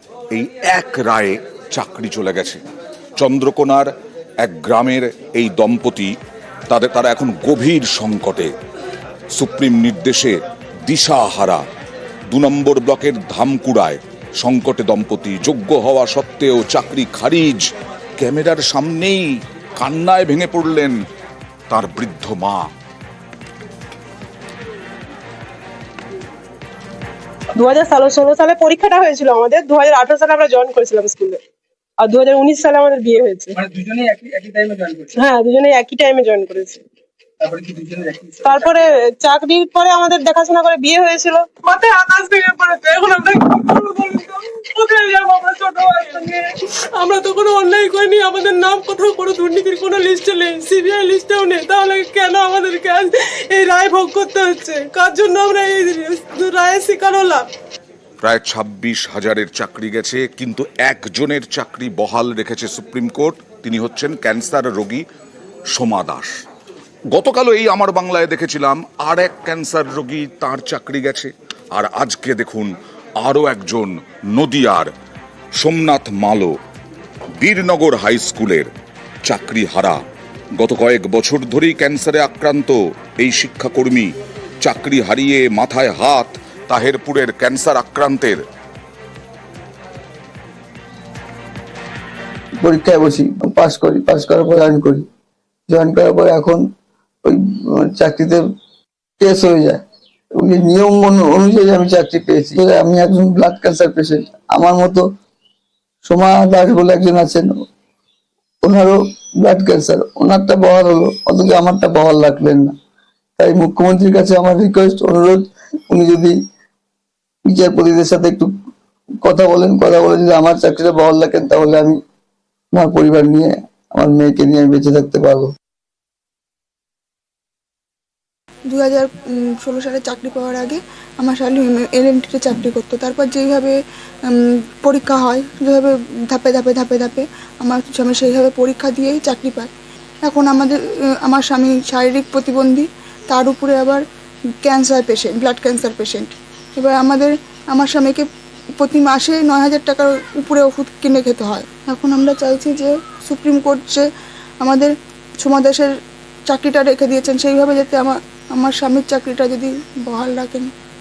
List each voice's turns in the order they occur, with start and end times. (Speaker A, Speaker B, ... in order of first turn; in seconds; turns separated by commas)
Speaker A: 0.3-2.6, Speaker A: 3.2-3.9, Speaker A: 4.4-6.2, Speaker A: 6.7-8.5, Speaker A: 9.3-11.7, Speaker A: 12.3-19.2, Speaker A: 19.8-21.0, Speaker A: 21.7-22.7, Speaker B: 27.6-31.4, Speaker B: 32.0-33.6, Speaker C: 33.6-35.1, Speaker B: 35.2-36.8, Speaker C: 37.4-38.5, Speaker B: 38.4-57.5, Speaker A: 58.2-65.0, Speaker A: 65.7-66.3, Speaker A: 67.1-74.9, Speaker A: 75.6-76.6, Speaker A: 77.4-78.7, Speaker A: 79.2-80.0, Speaker A: 80.6-88.5, Speaker D: 92.6-95.0, Speaker D: 95.7-96.7, Speaker D: 97.2-98.4, Speaker D: 99.2-99.8, Speaker D: 100.3-105.1, Speaker D: 106.0-107.6, Speaker D: 108.6-112.7, Speaker D: 113.4-116.4, Speaker D: 117.5-118.5, Speaker D: 119.2-122.0, Speaker D: 122.7-125.5, Speaker E: 128.7-139.7, Speaker E: 140.2-144.0, Speaker E: 144.6-148.2, Speaker E: 148.8-154.1, Speaker E: 154.6-155.9, Speaker E: 156.5-160.7